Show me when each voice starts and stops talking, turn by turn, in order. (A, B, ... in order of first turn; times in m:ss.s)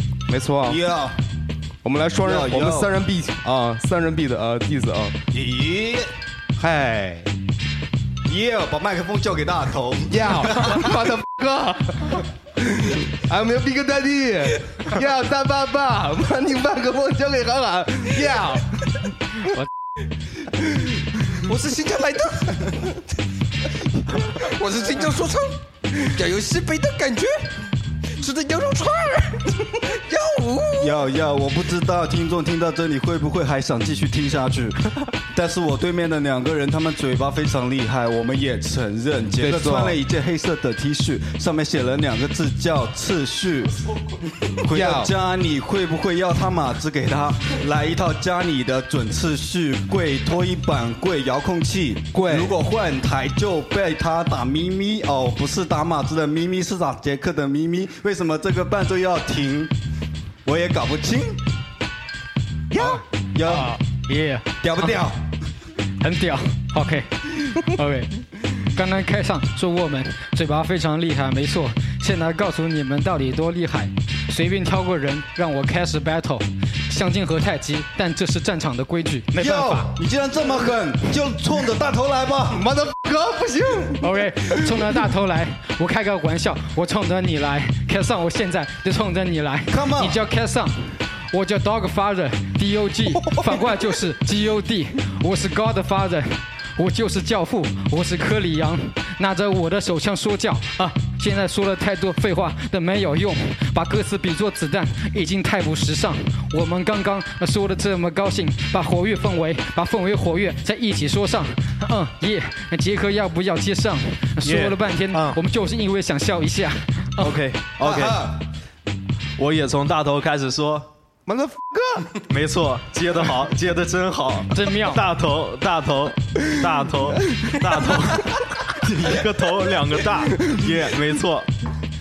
0:00.3-0:00.8 A
0:00.6-0:01.2 B
0:01.8-0:05.2 A
0:02.2-0:03.0 B
0:05.3-0:06.1 B
0:06.6-0:07.3 A
0:08.3-0:10.8 B
0:10.1-0:18.7 A
0:21.5-0:22.7 C
0:24.5-0:27.5 C
0:28.2-0:30.8 C
0:30.8-0:43.8 B
0:39.4-0:40.0 A
0:44.6-0:59.7 B
0:44.7-0:45.1 A
0:52.1-0:52.6 A
1:00.5-1:01.4 B
1:02.7-1:05.0 D
1:02.7-1:03.8 B
1:04.6-1:05.3 B
1:06.0-1:19.9 D
1:19.4-1:22.6 B
1:22.5-1:24.1 A
1:24.0-1:57.4 D
1:29.7-1:30.2 B
1:54.4-1:55.4 E
1:57.2-1:58.2 E
1:57.8-1:58.4 B
1:59.4-2:00.9 E
2:01.3-2:02.2 A
2:02.3-2:11.5 E
2:04.5-2:05.1 D
2:07.3-2:07.6 A
2:10.3-2:10.6 A